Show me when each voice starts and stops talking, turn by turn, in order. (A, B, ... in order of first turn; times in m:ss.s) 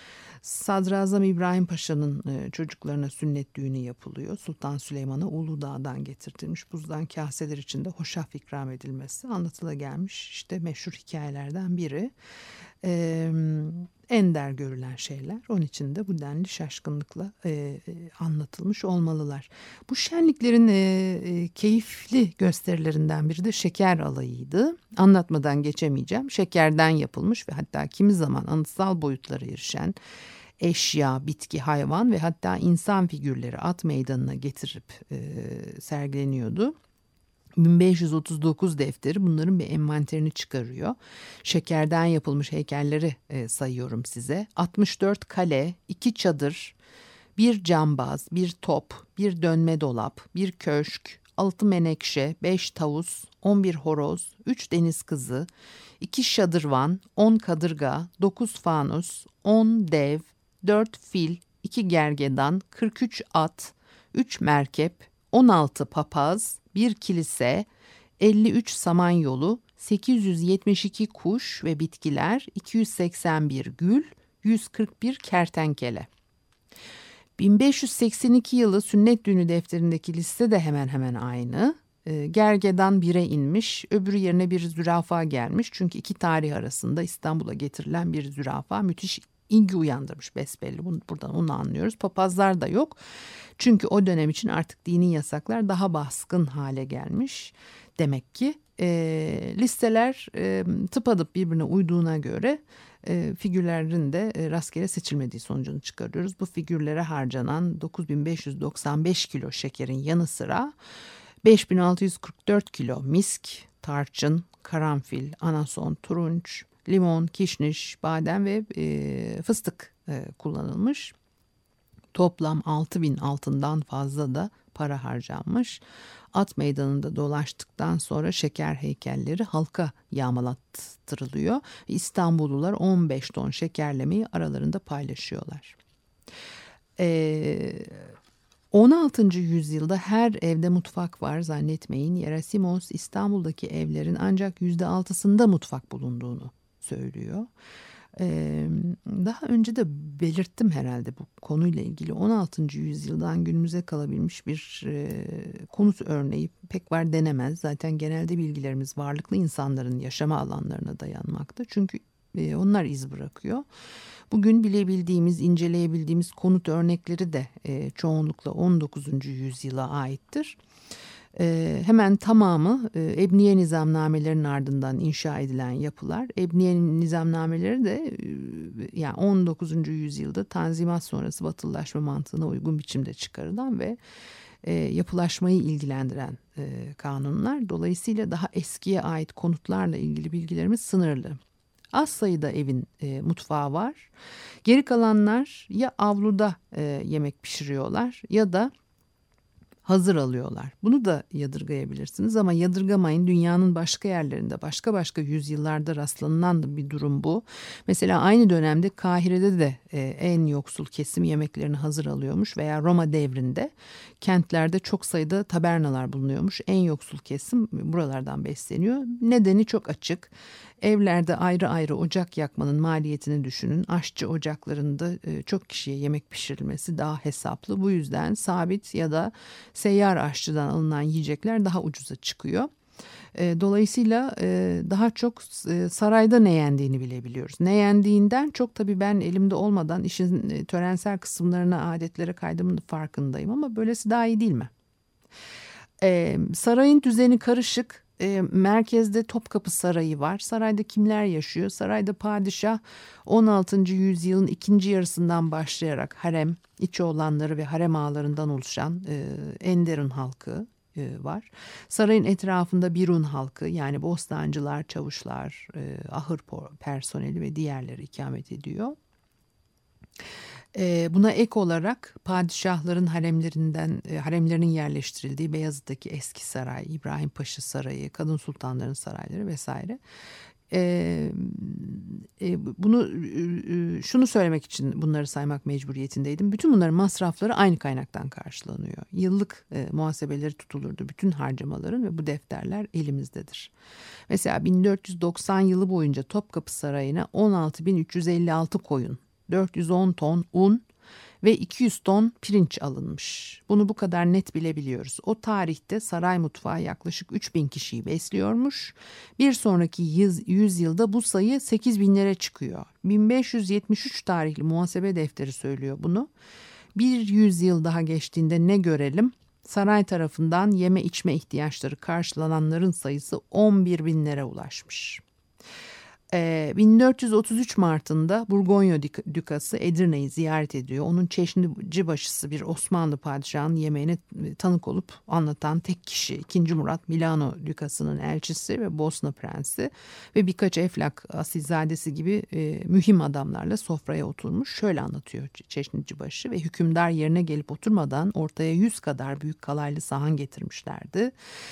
0:00.4-0:12.1 A
0:12.8-0:30.0 A
0:30.6-0:36.8 A
0:37.6-0:46.8 A
0:47.4-0:55.5 A
0:56.0-1:07.7 A
1:08.2-1:16.1 A
1:17.4-1:33.0 A
1:33.6-1:50.7 A
1:51.4-2:01.1 A
2:02.1-2:05.8 A
2:06.3-2:15.8 A
2:17.0-2:18.1 A
2:18.7-2:27.5 A
2:28.2-2:43.6 A
2:44.3-2:50.6 A
2:51.4-3:04.0 A
3:04.6-3:11.4 A
3:11.9-3:14.1 A
3:14.6-3:18.7 A
3:19.8-3:52.7 A
3:53.4-4:04.7 A
4:06.0-4:29.0 A
4:30.7-4:40.0 A
4:40.7-4:53.7 A
4:54.3-5:00.8 A
5:01.4-5:16.3 A
5:17.0-5:25.2 A
5:26.3-5:51.3 A